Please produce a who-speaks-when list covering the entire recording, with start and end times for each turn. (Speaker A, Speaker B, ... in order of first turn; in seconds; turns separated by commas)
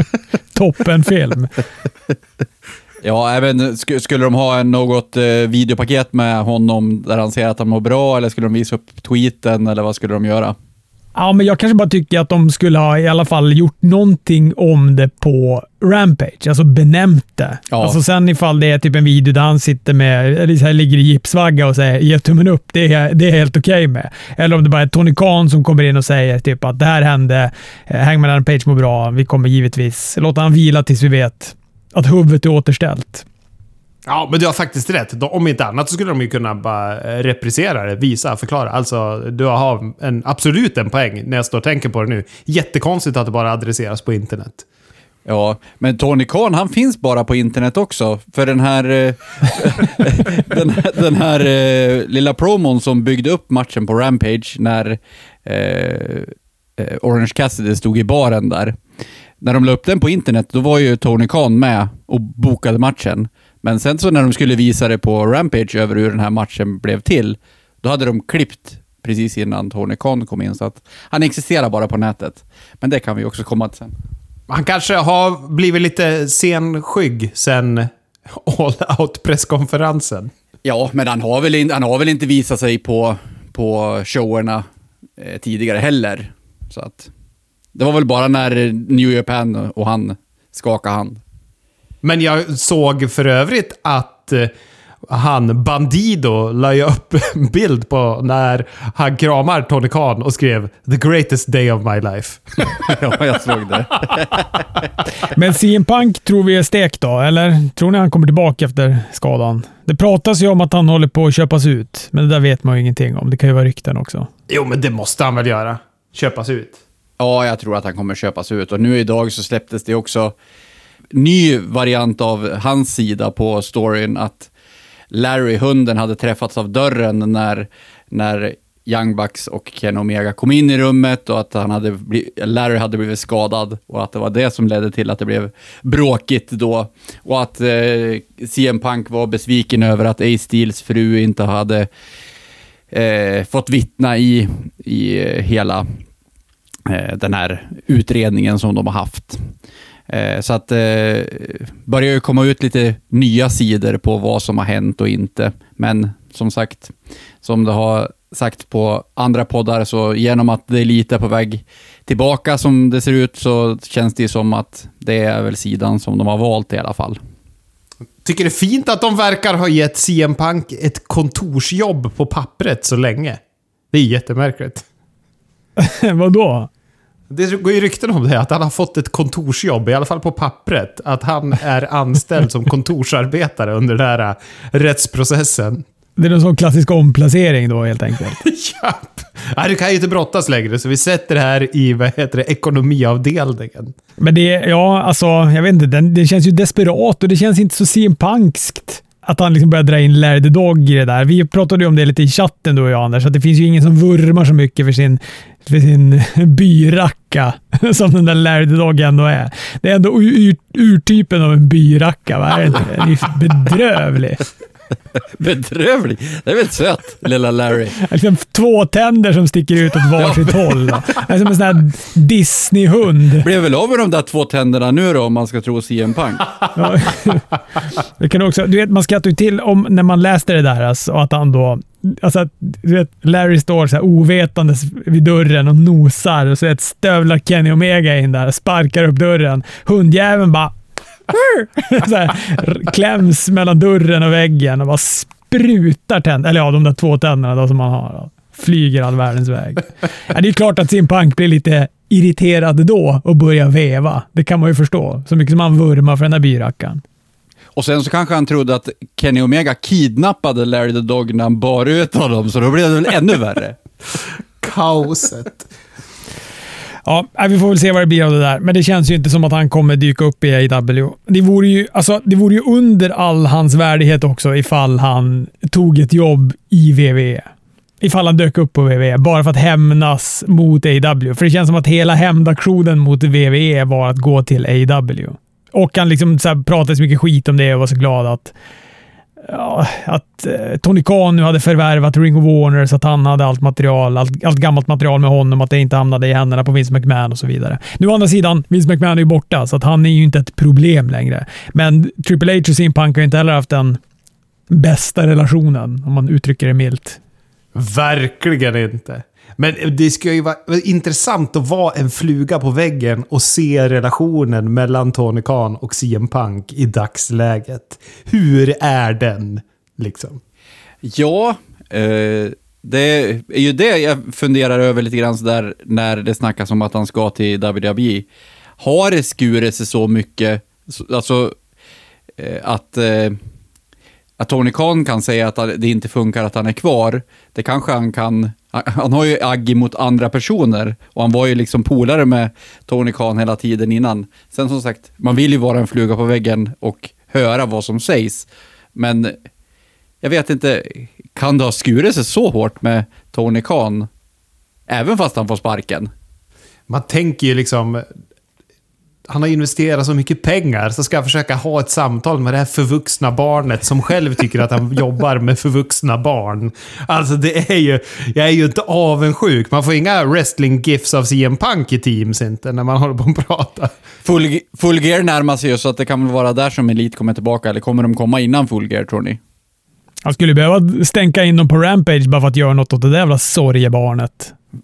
Speaker A: 0.6-1.5, Speaker B: 3.0-10.6, Speaker A: 11.2-33.3, Speaker B: 17.7-18.0, Speaker C: 34.1-44.6, Speaker B: 45.3-58.8, Speaker B: 59.4-73.9, Speaker C: 74.5-80.3, Speaker B: 80.6-84.7, Speaker B: 85.2-87.1, Speaker B: 87.8-91.2, Speaker C: 92.0-94.5, Speaker C: 95.1-102.9, Speaker B: 102.8-104.7, Speaker A: 105.3-114.3, Speaker C: 114.5-116.8, Speaker B: 117.2-120.3, Speaker B: 121.1-124.5, Speaker B: 125.1-141.9, Speaker B: 142.9-145.9, Speaker B: 146.9-149.5, Speaker B: 150.1-167.2, Speaker C: 168.2-173.4, Speaker C: 173.9-174.8, Speaker A: 175.8-176.7, Speaker C: 177.3-185.8, Speaker A: 186.2-188.4, Speaker C: 188.4-193.9, Speaker A: 194.2-214.4, Speaker B: 215.4-218.0, Speaker A: 218.0-223.5, Speaker B: 220.2-221.0, Speaker B: 223.4-226.6, Speaker A: 226.8-227.6, Speaker A: 228.2-240.7, Speaker A: 241.3-257.0, Speaker B: 257.8-263.8, Speaker C: 264.6-265.7, Speaker A: 267.1-277.5, Speaker A: 278.0-288.5, Speaker A: 289.4-304.0, Speaker A: 304.7-307.2, Speaker C: 307.8-320.4, Speaker B: 321.0-328.3, Speaker B: 328.8-331.6, Speaker B: 332.4-333.4, Speaker B: 334.4-349.4, Speaker B: 350.2-354.1, Speaker B: 354.9-356.1, Speaker C: 356.9-358.1, Speaker C: 359.3-373.9, Speaker B: 374.2-379.4, Speaker A: 380.2-384.5